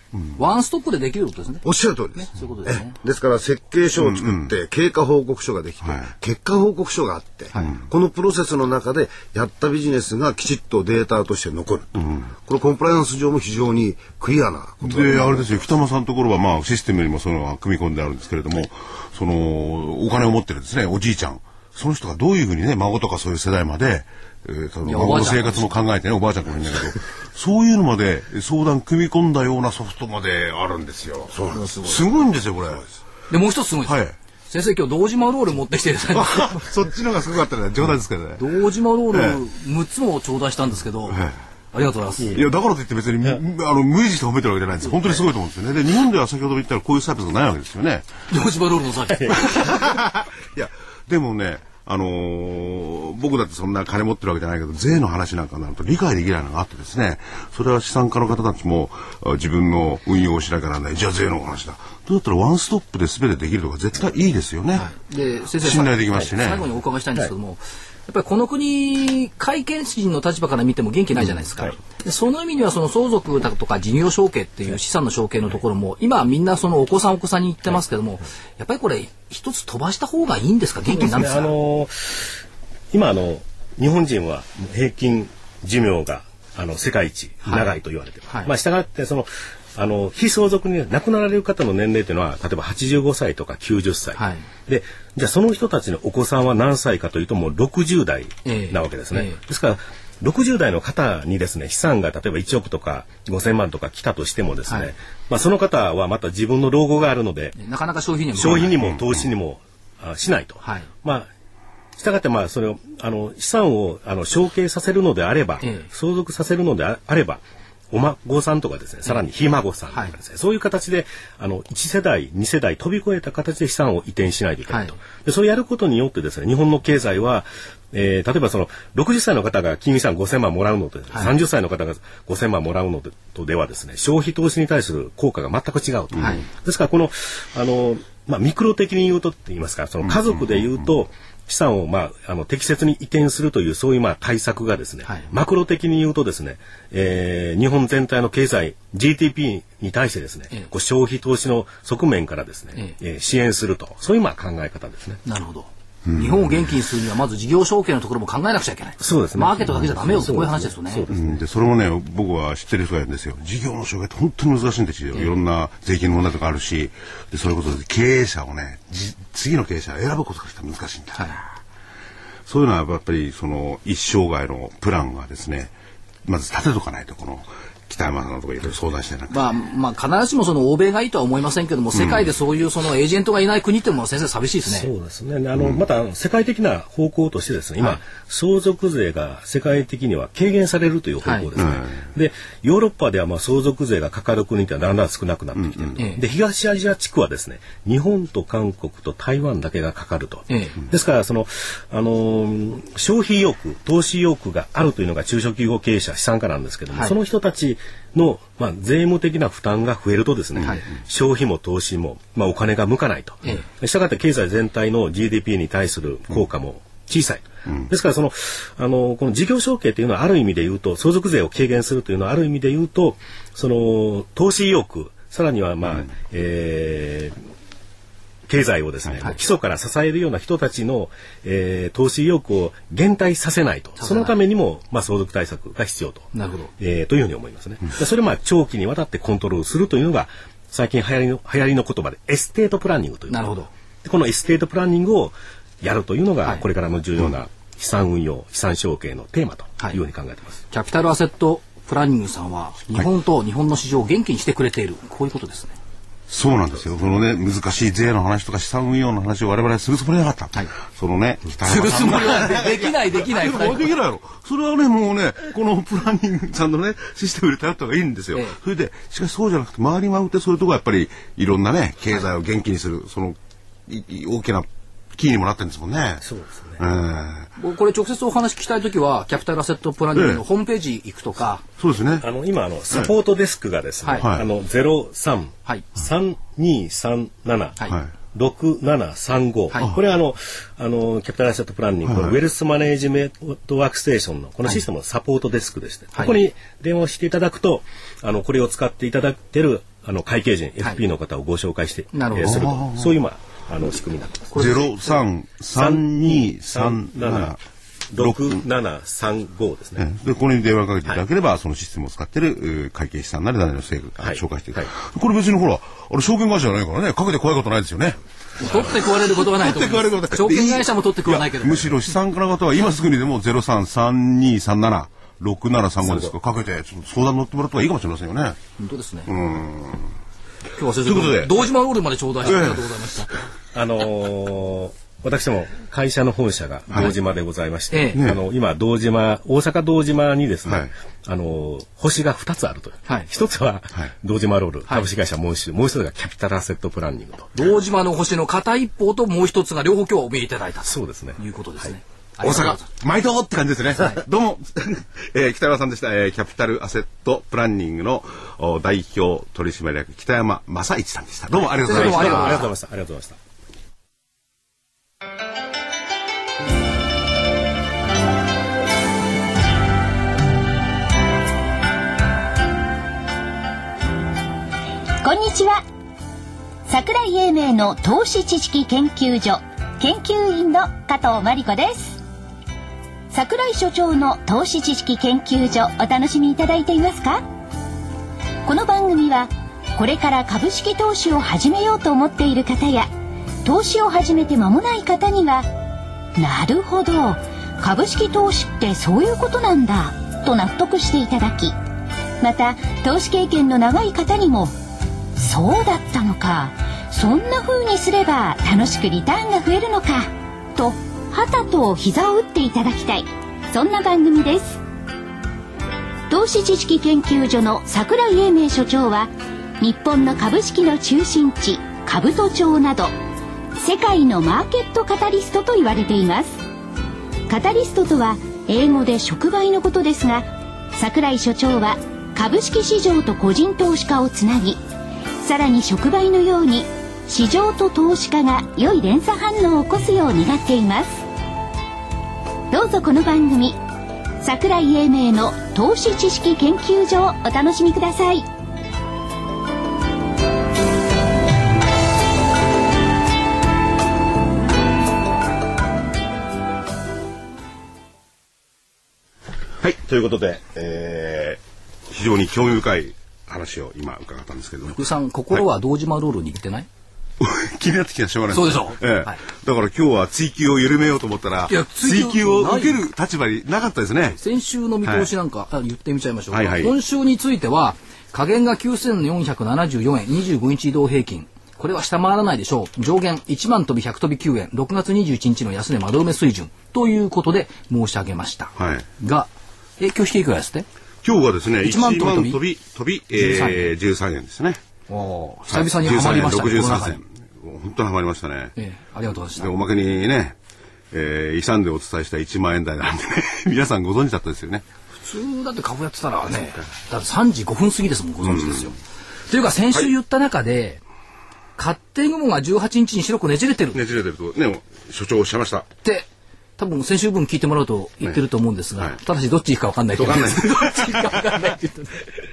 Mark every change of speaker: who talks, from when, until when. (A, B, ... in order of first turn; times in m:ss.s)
0:00.4-0:03.0 A
0:01.6-0:15.6 B
0:04.0-0:04.5 C
0:05.8-0:06.1 C
0:07.5-0:07.8 A
0:14.8-0:32.8 C
0:24.8-0:25.8 A
0:31.3-0:32.1 B
0:31.5-0:32.0 A
0:33.3-0:36.7 A
0:33.8-0:34.1 C
0:36.1-0:38.5 C
0:38.4-0:41.2 A
0:39.1-0:39.4 C
0:41.1-0:41.4 C
0:41.7-0:42.4 A
0:42.2-0:42.4 D
0:42.3-0:48.1 C
0:44.8-0:45.2 A
0:48.3-0:49.9 A
0:49.1-0:49.9 D
0:49.5-1:04.9 C
1:04.7-1:21.5 A
1:05.6-1:06.7 C
1:20.9-1:22.4 D
1:22.9-1:47.6 D
1:27.4-1:27.7 A
1:34.2-1:34.4 A
1:38.4-1:39.4 A
1:44.6-1:44.9 A
1:47.6-1:48.8 A
1:48.3-1:51.3 D
1:50.6-1:50.9 A
1:52.0-2:35.2 D
1:55.6-1:55.9 A
2:04.7-2:05.0 A
2:16.2-2:16.5 A
2:35.2-2:41.0 A
2:36.1-2:36.5 C
2:39.0-2:41.5 D
2:41.1-2:51.5 C
2:52.5-2:55.7 C
2:56.2-2:59.4 C
2:59.3-3:04.9 A
3:02.0-3:02.2 C
3:04.6-3:47.4 D
3:11.2-3:11.5 A
3:11.6-3:12.0 C
3:20.5-3:20.8 A
3:48.5-4:10.6 D
3:54.0-3:54.4 A
3:56.3-3:56.7 A
4:03.3-4:03.7 A
4:10.7-4:15.8 A
4:16.3-4:33.4 C
4:21.6-4:23.9 A
4:33.9-4:36.2 C
4:36.2-4:36.8 D
4:36.8-4:37.5 C
4:37.6-4:41.6 A
4:40.1-4:40.4 C
4:41.8-4:42.2 C
4:42.2-5:04.7 D
4:44.2-4:44.4 C
4:52.1-4:52.4 C
5:02.1-5:02.7 A
5:02.4-5:03.2 C
5:04.5-5:05.1 A
5:04.6-5:07.6 C
5:05.7-5:07.6 D
5:08.1-5:10.0 D
5:08.2-5:08.6 C
5:10.0-5:28.6 C
5:14.2-5:14.9 D
5:18.6-5:21.9 A
5:28.8-5:29.3 A
5:29.3-5:30.1 C
5:30.8-5:33.3 A
5:31.0-5:31.7 C
5:32.4-5:33.0 C
5:33.7-5:47.5 D
5:37.9-5:38.2 A
5:38.2-5:38.4 C
5:47.5-5:52.8 A
5:50.8-5:51.9 D
5:52.4-6:02.6 C
5:54.0-5:54.2 A
6:01.8-6:02.7 A
6:01.8-6:03.4 D
6:15.2-6:15.8 E
6:16.9-6:22.2 E
6:23.3-6:27.4 E
6:28.6-6:33.1 E
6:33.6-6:35.7 E
6:36.4-6:41.7 E
6:42.4-6:44.7 E
6:45.4-6:54.8 E
6:56.3-6:59.3 E
6:59.8-7:03.1 E
7:03.8-7:06.6 E
7:07.5-7:14.8 E
7:15.4-7:21.2 E
7:22.7-7:23.8 E
7:24.4-7:28.4 E
7:39.8-7:45.0 C
7:44.9-7:46.9 A
7:47.4-7:54.4 C
7:48.5-7:49.4 A
7:51.7-7:53.0 A
7:54.4-8:10.8 A
7:55.0-7:55.3 C
7:56.5-7:56.9 C
8:08.8-8:09.0 C
8:11.2-8:14.8 C
8:11.8-8:12.6 A
8:13.3-8:13.9 A
8:15.1-8:17.2 A
8:15.7-8:18.8 C
8:18.8-8:19.7 A
8:19.5-8:20.6 C
8:21.1-8:24.8 C
8:25.2-8:29.0 A
8:28.4-8:28.9 C
8:29.5-8:31.0 A
8:31.8-8:34.0 A
8:33.9-8:35.9 C
8:36.8-8:42.2 A
8:40.2-8:41.4 C